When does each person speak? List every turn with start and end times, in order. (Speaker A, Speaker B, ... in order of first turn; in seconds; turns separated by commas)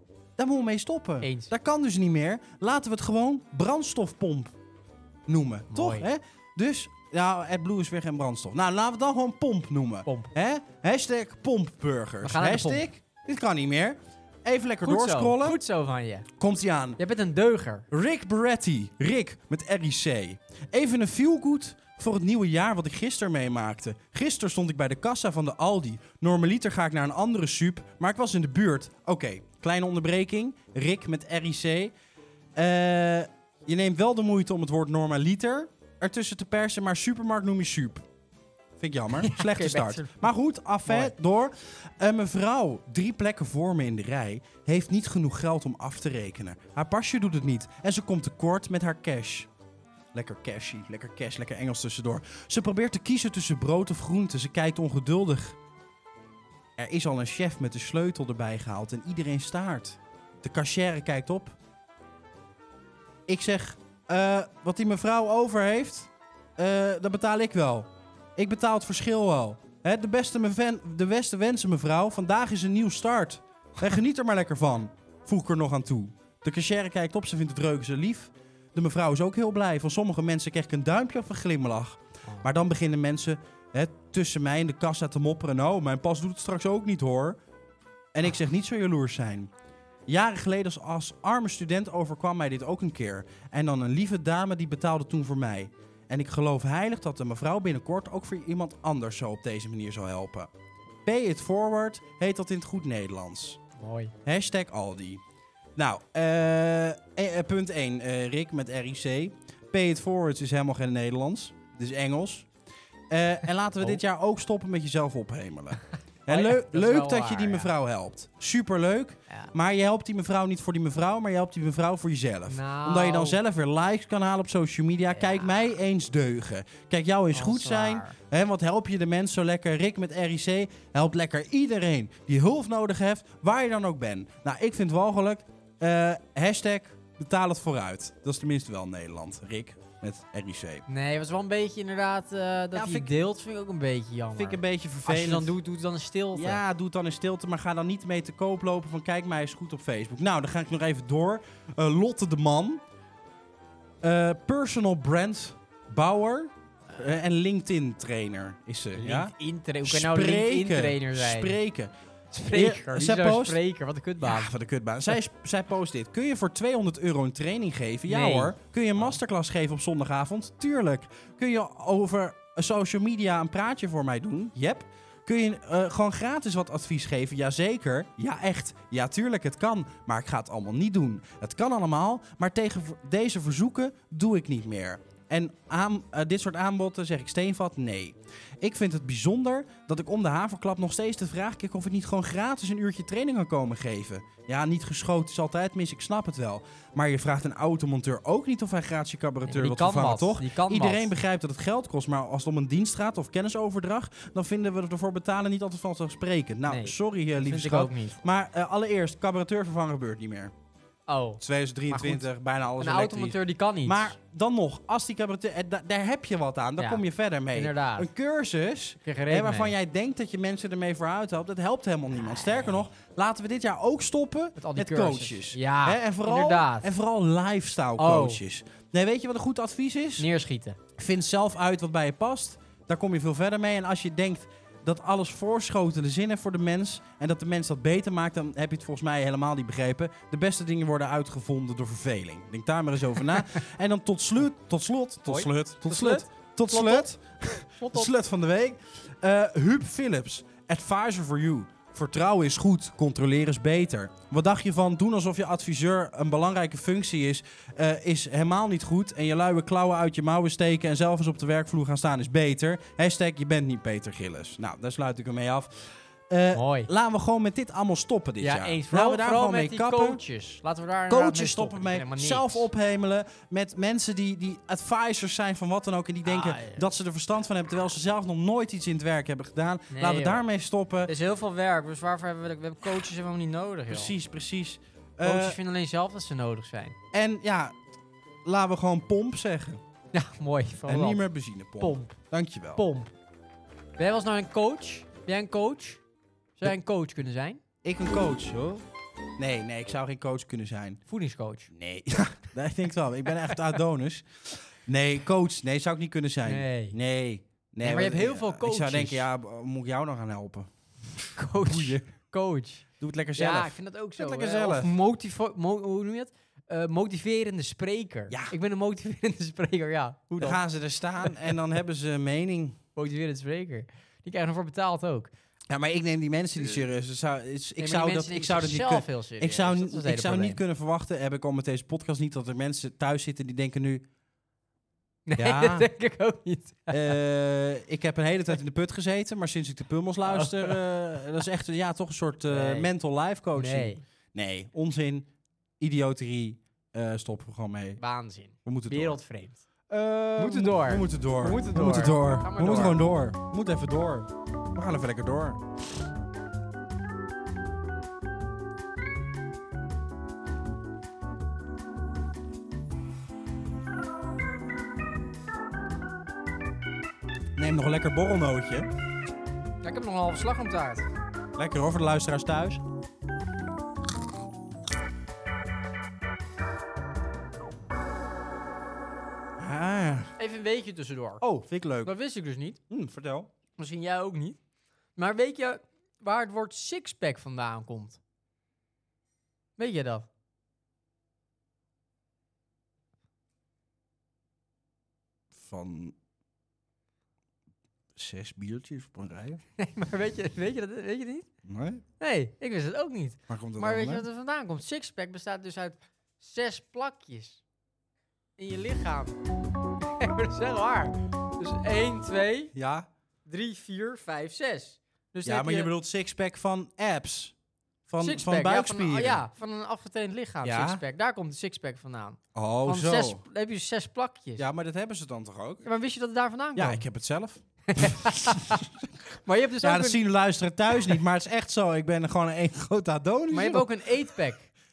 Speaker A: 0.4-4.5, Speaker B: 1.2-1.5, Speaker A: 5.3-15.6, Speaker B: 5.7-6.1, Speaker B: 10.1-10.3, Speaker B: 12.2-12.9, Speaker B: 14.8-16.3, Speaker A: 16.4-17.0, Speaker B: 17.0-17.9, Speaker A: 17.9-31.9, Speaker A: 32.6-38.0, Speaker A: 38.8-49.5, Speaker B: 39.1-40.3, Speaker B: 40.9-41.1, Speaker A: 50.1-55.6, Speaker A: 56.8-61.6, Speaker A: 63.3-87.4, Speaker A: 88.1-89.5, Speaker A: 90.1-100.5, Speaker A: 101.0-103.6, Speaker B: 103.8-104.1, Speaker A: 104.2-105.2, Speaker A: 105.8-112.5, Speaker A: 113.1-140.9, Speaker B: 116.3-117.7, Speaker B: 122.5-123.4, Speaker B: 127.3-128.2, Speaker B: 140.9-146.6, Speaker A: 142.7-143.1, Speaker A: 144.4-145.5, Speaker A: 146.3-152.8, Speaker A: 154.0-159.3, Speaker B: 159.0-161.6, Speaker A: 159.8-161.9, Speaker B: 162.3-164.5, Speaker A: 162.5-163.6, Speaker A: 164.2-210.5, Speaker B: 168.1-169.1, Speaker B: 199.5-201.1, Speaker B: 206.7-208.2, Speaker B: 211.1-212.3, Speaker A: 211.4-230.3, Speaker B: 212.8-214.2, Speaker B: 216.8-218.1, Speaker B: 219.0-219.8, Speaker B: 224.6-226.9, Speaker B: 228.0-228.4, Speaker B: 230.2-230.8, Speaker A: 231.0-270.2, Speaker B: 245.3-247.1, Speaker B: 247.7-248.1, Speaker B: 266.5-266.9, Speaker B: 268.4-272.7, Speaker A: 271.1-281.1, Speaker B: 276.2-276.9, Speaker B: 279.9-280.4, Speaker B: 281.1-284.1, Speaker A: 283.9-285.6, Speaker B: 285.2-287.0, Speaker A: 287.1-287.8, Speaker A: 288.4-289.8, Speaker B: 290.1-291.2, Speaker A: 290.9-292.9, Speaker B: 291.8-292.2, Speaker B: 292.8-293.1, Speaker B: 294.0-296.0, Speaker B: 296.6-297.6, Speaker A: 297.8-298.9, Speaker A: 299.4-301.0, Speaker B: 301.1-301.7, Speaker A: 301.7-312.0, Speaker B: 306.4-307.0, Speaker B: 307.8-309.3, Speaker B: 311.4-320.6, Speaker A: 313.0-314.9, Speaker A: 318.3-318.5, Speaker A: 320.4-322.8, Speaker B: 323.0-325.3, Speaker A: 325.7-334.1, Speaker B: 327.8-330.6, Speaker B: 335.3-337.2, Speaker A: 335.4-335.9, Speaker A: 336.9-345.3, Speaker B: 340.2-340.8, Speaker B: 342.5-342.9, Speaker B: 343.5-344.0, Speaker A: 345.8-348.0, Speaker B: 348.0-349.6, Speaker A: 348.6-349.2, Speaker A: 349.9-355.6, Speaker B: 350.4-353.0, Speaker A: 367.6-368.9, Speaker B: 369.8-371.1, Speaker A: 371.6-372.8, Speaker A: 379.6-380.3, Speaker B: 380.4-381.4, Speaker A: 381.4-382.1, Speaker B: 382.0-382.8, Speaker A: 382.9-383.5, Speaker B: 383.8-384.6, Speaker B: 385.2-388.2, Speaker B: 389.8-390.3, Speaker A: 395.5-396.2, Speaker A: 398.1-399.6, Speaker B: 399.8-401.5, Speaker A: 401.6-402.0, Speaker B: 402.2-407.6, Speaker A: 403.5-404.3, Speaker B: 408.6-409.4, Speaker B: 410.2-412.7, Speaker A: 412.7-413.1, Speaker B: 413.5-415.9, Speaker A: 415.4-417.6, Speaker A: 418.1-419.4, Speaker B: 418.2-424.7, Speaker A: 420.6-421.0, Speaker A: 422.6-423.4, Speaker A: 424.6-425.9, Speaker B: 425.8-427.0, Speaker A: 426.8-428.9, Speaker B: 427.9-430.2, Speaker A: 429.8-433.9, Speaker B: 433.5-434.7